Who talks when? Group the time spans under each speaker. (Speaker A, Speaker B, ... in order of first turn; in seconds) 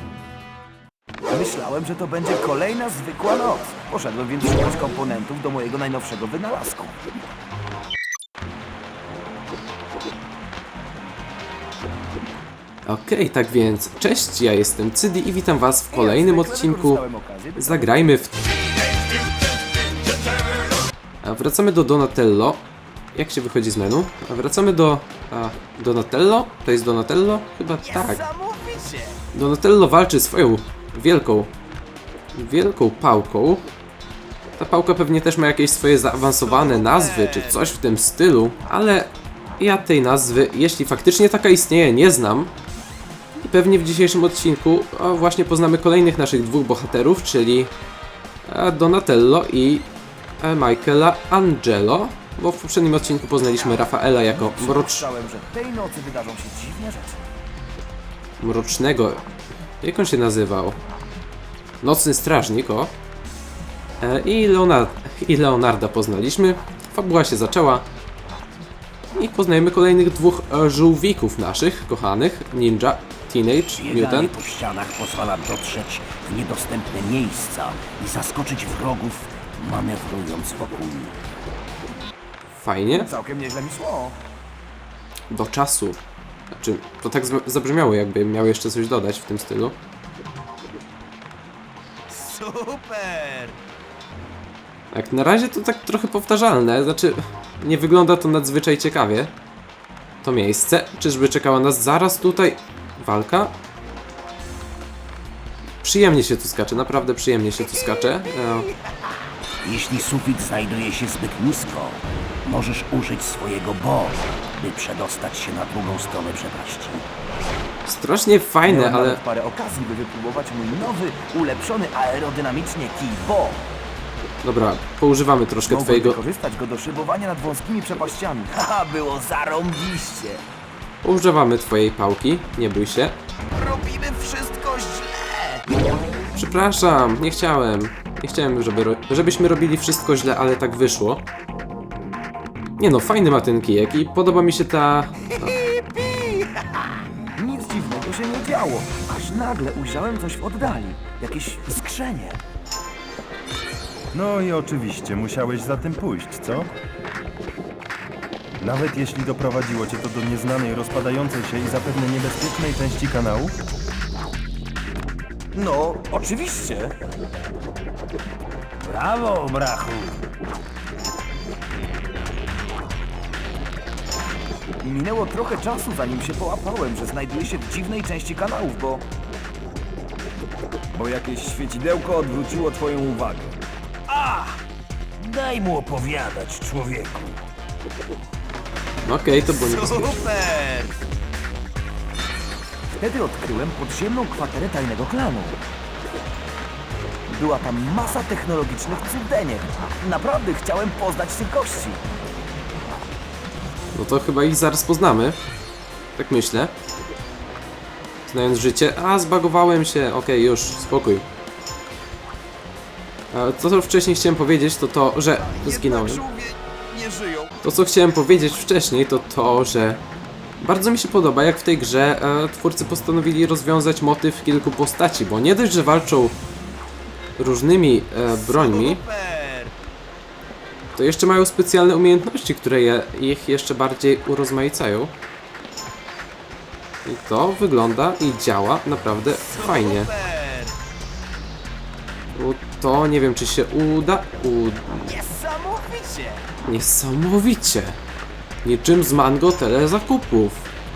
Speaker A: 1.3-7.0, 15.9-17.9, 27.8-29.2, 36.4-37.7, 53.5-57.3, 82.9-84.2, 92.1-93.6, 118.7-123.7, 125.7-130.4, 133.5-135.7, 145.3-146.7, 147.4-152.4, 165.5-166.9, 174.8-179.1, 189.5-190.9, 193.0-195.6, 197.3-202.0, 215.4-217.5, 228.3-229.7, 239.3-240.8, 245.0-246.5
Speaker B: 12.9-17.0, 17.6-18.4, 21.2-22.6, 23.1-28.2, 29.3-31.5, 32.4-33.7, 34.6-42.5, 43.4-47.7, 48.5-49.9, 50.4-55.1, 58.4-59.2, 59.8-60.8, 61.8-62.9, 64.0-67.8, 69.2-74.3, 82.6-83.1, 85.3-86.0, 86.5-89.8, 94.9-99.3, 100.2-103.5, 105.8-108.7, 117.8-119.2, 124.4-126.2, 131.0-133.2, 136.3-141.2, 142.8-145.6, 189.1-190.2, 203.9-205.4, 206.2-206.7, 208.3-211.2, 213.3-216.2, 217.6-220.0, 220.6-226.4, 227.4-229.0, 231.0-235.1, 237.1-240.1, 242.3-245.1, 246.7-248.0, 248.6-250.6
Speaker C: 73.8-81.2, 109.6-117.0
Speaker D: 154.1-156.7, 158.6-163.6
Speaker E: 168.9-170.2, 184.1-184.6, 185.2-187.4
Speaker F: 180.9-183.6